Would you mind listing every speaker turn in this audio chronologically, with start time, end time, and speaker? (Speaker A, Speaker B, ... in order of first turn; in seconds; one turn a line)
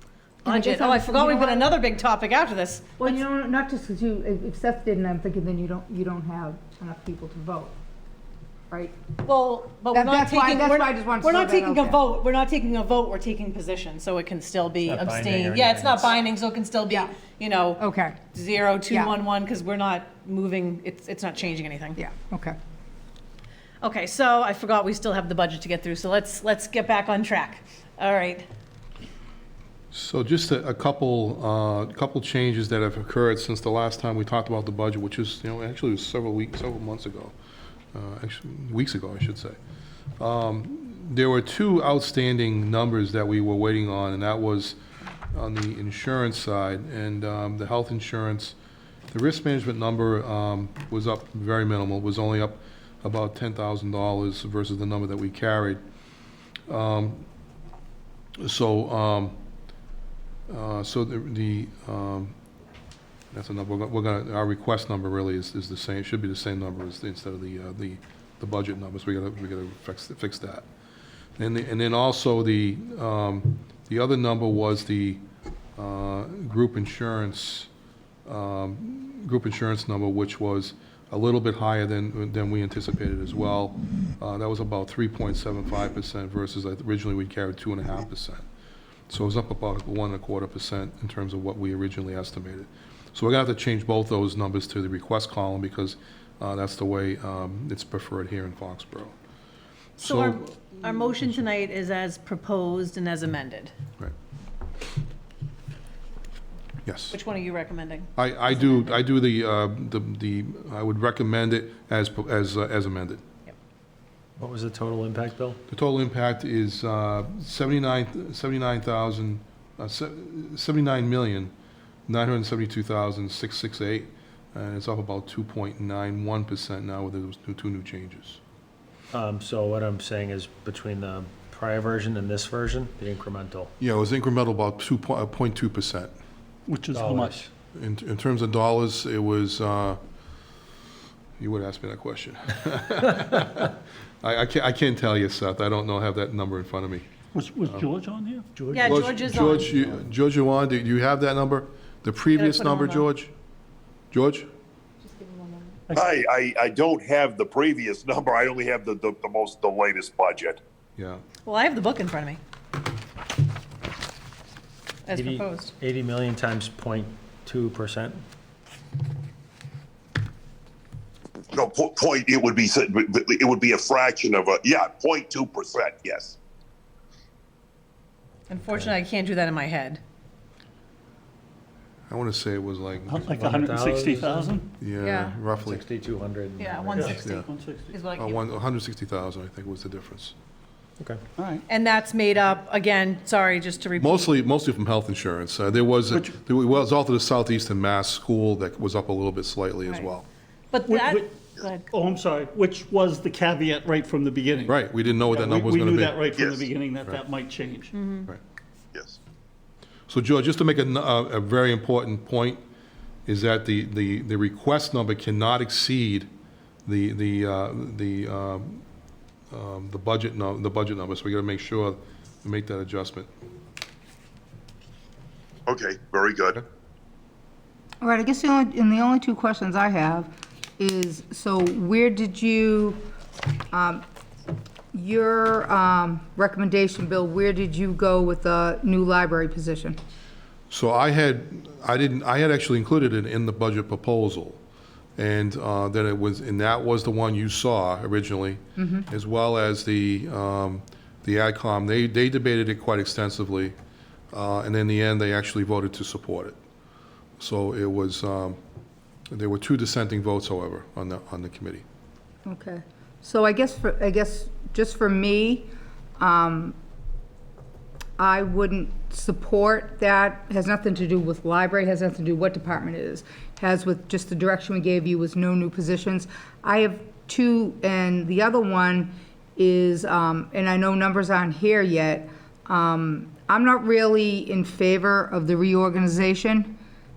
Speaker A: 0.5-1.7
Speaker B: 0.5-3.2
Speaker A: 3.0-7.8
Speaker A: 8.7-9.0
Speaker B: 9.2-22.0
Speaker A: 9.9-12.0
Speaker C: 14.9-16.0
Speaker A: 17.8-18.2
Speaker A: 22.0-22.6
Speaker B: 23.8-28.5
Speaker D: 29.9-37.3
Speaker D: 37.9-39.6
Speaker D: 40.2-44.8
Speaker D: 45.3-48.6
Speaker D: 49.1-55.8
Speaker D: 56.7-57.3
Speaker D: 58.4-59.4
Speaker D: 60.5-62.3
Speaker D: 63.3-70.7
Speaker D: 71.4-75.2
Speaker D: 75.8-77.7
Speaker D: 78.3-88.4
Speaker D: 89.1-99.1
Speaker B: 100.0-103.7
Speaker D: 100.0-100.5
Speaker D: 106.8-107.2
Speaker B: 107.1-108.8
Speaker D: 108.2-113.2
Speaker C: 114.4-115.6
Speaker D: 115.7-121.5
Speaker D: 122.1-128.4
Speaker C: 129.1-133.7
Speaker D: 133.8-136.1
Speaker E: 136.7-137.4
Speaker C: 136.9-137.5
Speaker D: 137.8-140.0
Speaker D: 141.4-147.1
Speaker E: 147.3-149.1
Speaker B: 148.7-149.9
Speaker D: 148.8-153.3
Speaker B: 152.3-153.1
Speaker D: 154.1-154.5
Speaker A: 155.0-155.8
Speaker F: 155.9-160.6
Speaker D: 161.0-161.2
Speaker B: 161.4-162.4
Speaker B: 165.1-165.7
Speaker C: 165.2-168.2
Speaker F: 171.5-176.4
Speaker B: 178.5-180.0
Speaker D: 182.1-183.3
Speaker E: 183.1-184.7
Speaker C: 183.4-184.6
Speaker D: 184.8-185.8
Speaker B: 185.0-185.3
Speaker C: 185.6-187.0
Speaker B: 186.6-188.4
Speaker E: 187.0-187.9
Speaker D: 187.0-187.5
Speaker D: 188.2-190.3
Speaker E: 191.4-191.6
Speaker B: 191.7-194.3
Speaker D: 194.0-200.3
Speaker B: 200.7-201.8
Speaker E: 200.9-201.3
Speaker E: 201.9-207.9
Speaker D: 204.7-206.3
Speaker F: 206.3-206.7
Speaker B: 207.9-208.3
Speaker F: 208.9-209.2
Speaker D: 210.1-212.6
Speaker D: 213.3-216.3
Speaker D: 216.9-218.8
Speaker D: 219.5-223.3
Speaker F: 225.7-226.6
Speaker A: 228.0-233.1
Speaker A: 233.7-234.0
Speaker A: 234.9-240.0
Speaker D: 240.7-244.6
Speaker D: 245.2-253.8
Speaker A: 248.8-249.1
Speaker D: 254.3-256.6
Speaker D: 257.4-258.6
Speaker D: 259.3-261.8
Speaker A: 262.4-266.8
Speaker A: 268.2-286.8